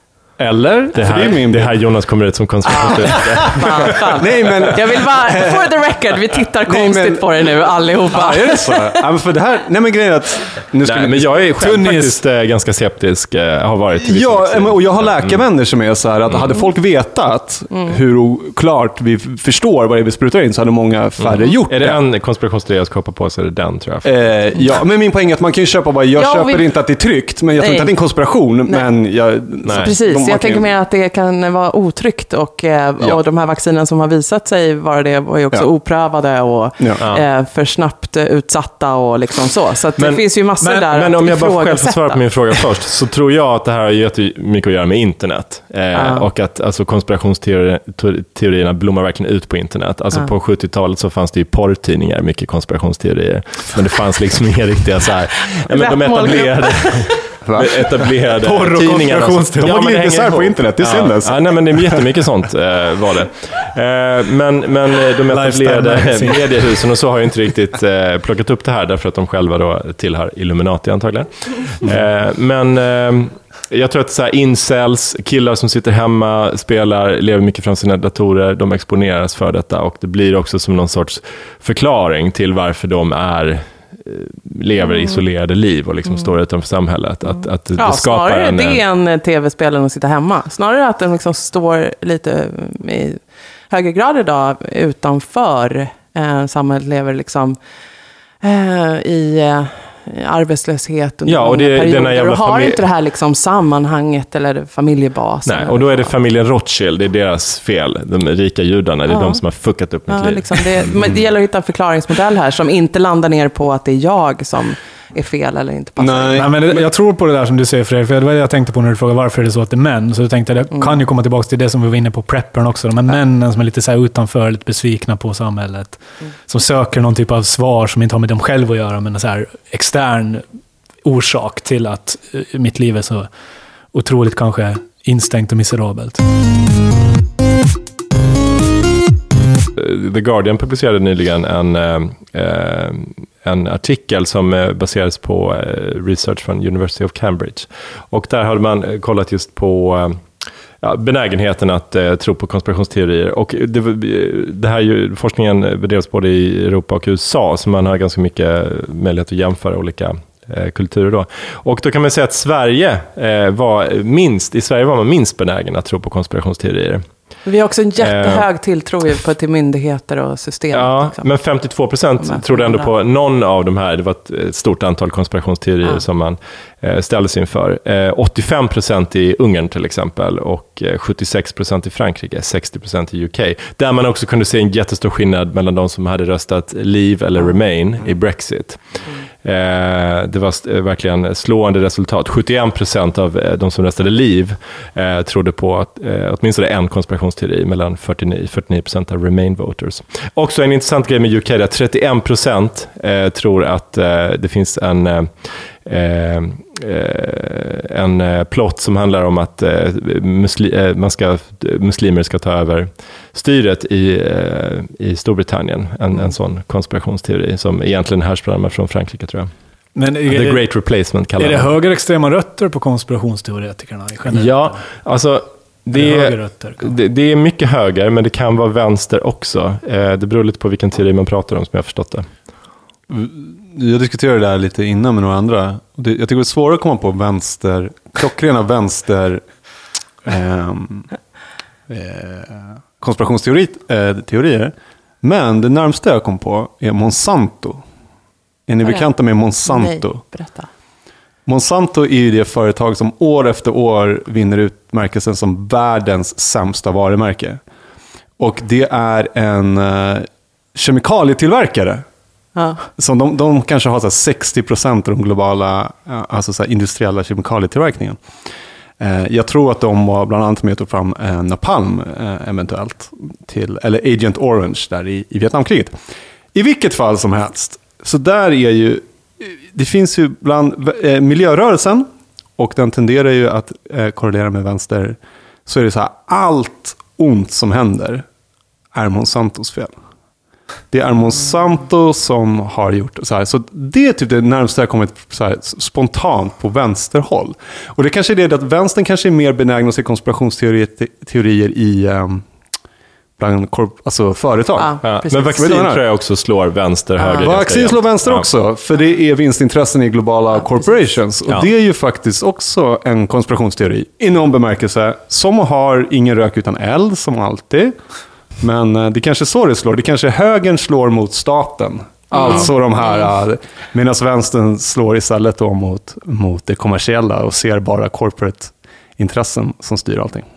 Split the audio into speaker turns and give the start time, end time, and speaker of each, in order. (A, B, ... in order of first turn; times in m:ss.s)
0:00.4-0:01.8 A
0:00.9-0:04.7 B
0:02.7-0:09.0 C
0:02.7-0:05.8 A
0:06.6-0:11.4 A
0:10.8-0:15.4 B
0:11.6-0:12.2 D
0:14.0-0:22.0 A
0:16.3-0:16.6 B
0:17.7-0:18.0 C
0:21.2-0:24.2 B
0:24.0-0:30.7 A
0:26.2-0:26.6 C
0:27.6-0:27.9 C
0:29.6-0:29.9 B
0:29.8-0:42.6 C
0:40.0-1:28.8 B
0:45.9-0:46.3 C
0:55.7-0:57.2 C
0:57.4-1:02.1 A
0:58.6-0:59.6 D
1:05.3-1:06.7 D
1:24.9-1:25.2 C
1:27.8-1:33.2 C
1:33.7-1:37.6 C
1:38.4-1:46.1 C
1:41.2-1:42.8 B
1:45.4-1:51.0 B
1:49.1-1:49.4 C
1:50.1-1:56.4 C
1:51.0-1:51.2 A
1:56.0-1:56.8 A
1:56.4-2:10.4 D
2:11.0-2:13.3 D
2:13.9-2:16.2 D
2:19.8-2:30.2 B
2:30.8-2:47.0 B
2:47.4-2:51.3 C
2:48.0-2:48.4 B
2:50.7-3:08.8 B
2:52.2-2:52.9 C
3:09.4-3:39.5 B
3:40.0-3:40.6 D
3:40.3-3:41.7 B
3:41.4-3:44.8 D
3:44.3-3:52.2 B
3:45.9-3:46.9 D
3:53.1-3:59.4 A
4:00.2-4:01.1 A
4:01.9-4:07.8 A
4:08.7-4:10.2 A
4:09.6-4:10.7 C
4:11.4-4:17.6 A
4:18.4-4:22.0 A
4:22.6-4:22.8 C
4:23.0-4:28.2 A
4:29.0-4:36.0 A
4:36.5-4:42.1 A
4:42.6-4:48.2 A
4:48.9-4:49.9 A
4:50.9-5:02.4 A
5:03.4-5:06.0 A
5:04.8-5:05.6 C
5:05.0-5:08.4 B
5:07.4-5:18.0 A
5:18.6-5:30.4 A
5:22.3-5:22.7 C